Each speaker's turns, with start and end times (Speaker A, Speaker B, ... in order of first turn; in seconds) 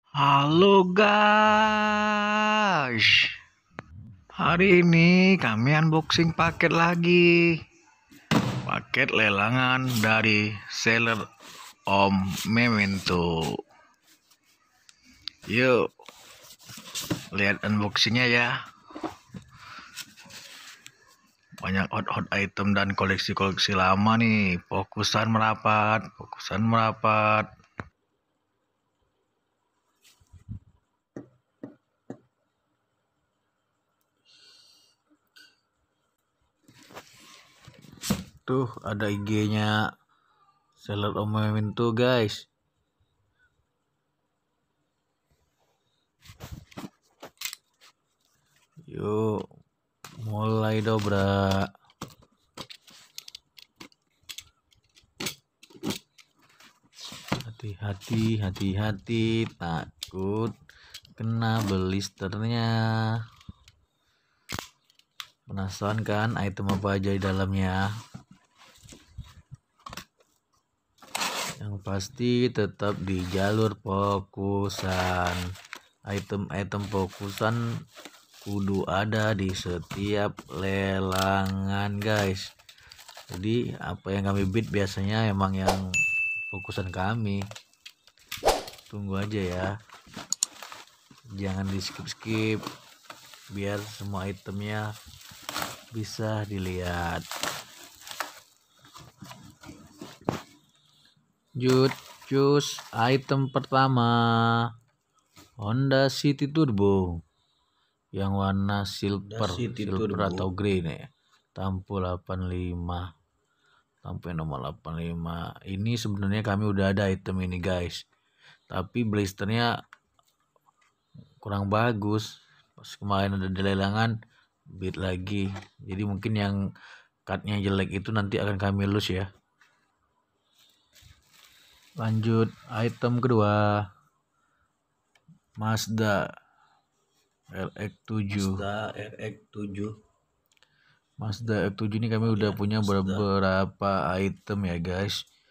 Speaker A: 0.2-3.3, 4.4-7.5, 8.6-11.2, 11.9-13.3, 15.5-15.8, 17.3-18.5, 21.6-27.5, 38.5-39.7, 40.8-42.5, 48.9-49.4, 50.2-51.7, 57.4-60.5, 61.2-62.7, 65.5-67.9, 71.6-75.4, 76.1-77.6, 78.4-82.4, 83.3-85.8, 86.5-87.4, 88.9-89.7, 91.4-92.6, 93.5-94.8, 95.9-97.2, 101.6-104.5, 105.6-107.2, 108.2-111.0, 111.5-113.0, 114.0-118.0, 118.7-119.7, 121.4-124.1, 124.8-126.6, 127.3-129.3, 132.0-133.6, 135.6-136.2, 137.5-138.6, 141.2-145.2
Speaker B: 109.3-110.5, 138.3-139.9, 142.4-143.2